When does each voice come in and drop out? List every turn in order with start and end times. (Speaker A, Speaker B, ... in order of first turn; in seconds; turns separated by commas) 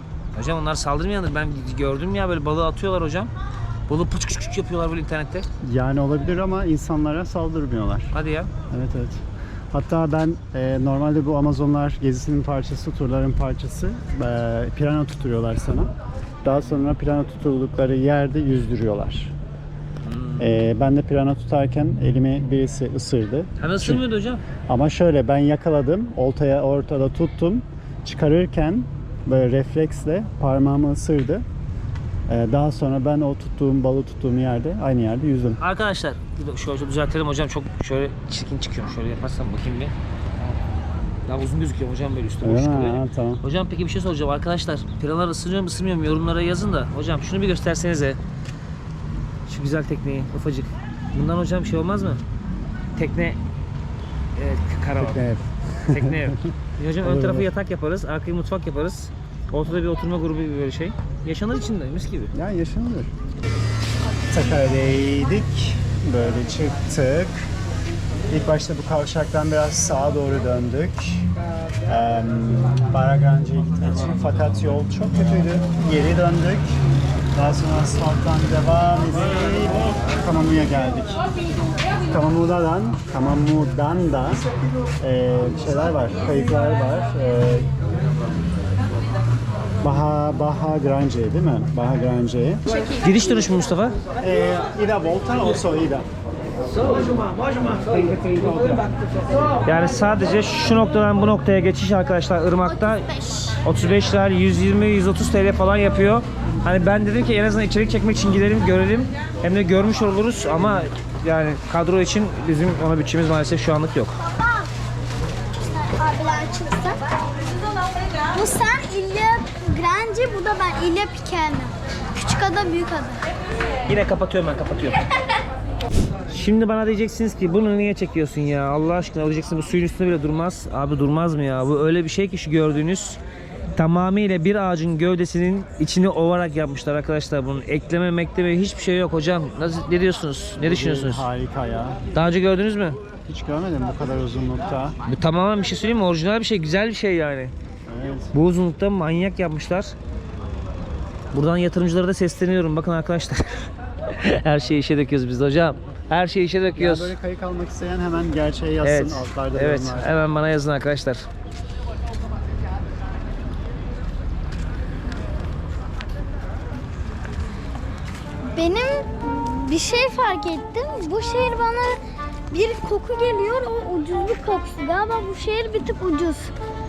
Speaker A: 0.3-3.3, Speaker A: 3.9-5.5, Speaker B: 5.6-8.1, Speaker A: 8.1-8.5, Speaker B: 8.7-15.9, Speaker B: 16.4-19.3, Speaker A: 20.0-20.4, Speaker B: 20.4-24.0, Speaker A: 23.6-24.4, Speaker B: 24.7-31.4, Speaker B: 32.3-35.6, Speaker A: 35.6-40.0, Speaker A: 41.2-48.2, Speaker B: 42.4-43.4, Speaker A: 49.5-52.2, Speaker A: 53.0-53.4, Speaker A: 54.4-55.2, Speaker B: 55.0-57.5, Speaker A: 55.9-62.3, Speaker B: 62.3-63.1, Speaker B: 64.3-67.5, Speaker B: 68.3-71.2, Speaker B: 71.8-76.8, Speaker B: 77.3-81.2, Speaker B: 82.1-84.4, Speaker B: 85.0-87.7, Speaker B: 89.8-92.6, Speaker A: 93.0-94.0, Speaker B: 94.2-96.0, Speaker B: 97.8-98.8, Speaker A: 99.6-103.1, Speaker C: 102.9-103.6, Speaker A: 103.6-114.1, Speaker C: 115.6-117.0, Speaker C: 118.3-123.2, Speaker A: 123.9-125.0, Speaker A: 126.3-133.2, Speaker A: 133.7-141.2, Speaker B: 140.6-142.0, Speaker A: 142.1-143.0, Speaker B: 143.2-144.9, Speaker A: 145.1-147.5, Speaker B: 147.9-148.3, Speaker A: 148.3-149.9, Speaker A: 151.3-153.6, Speaker A: 154.2-157.1, Speaker B: 156.7-160.1, Speaker A: 158.8-161.2, Speaker C: 168.5-172.0, Speaker C: 172.5-176.5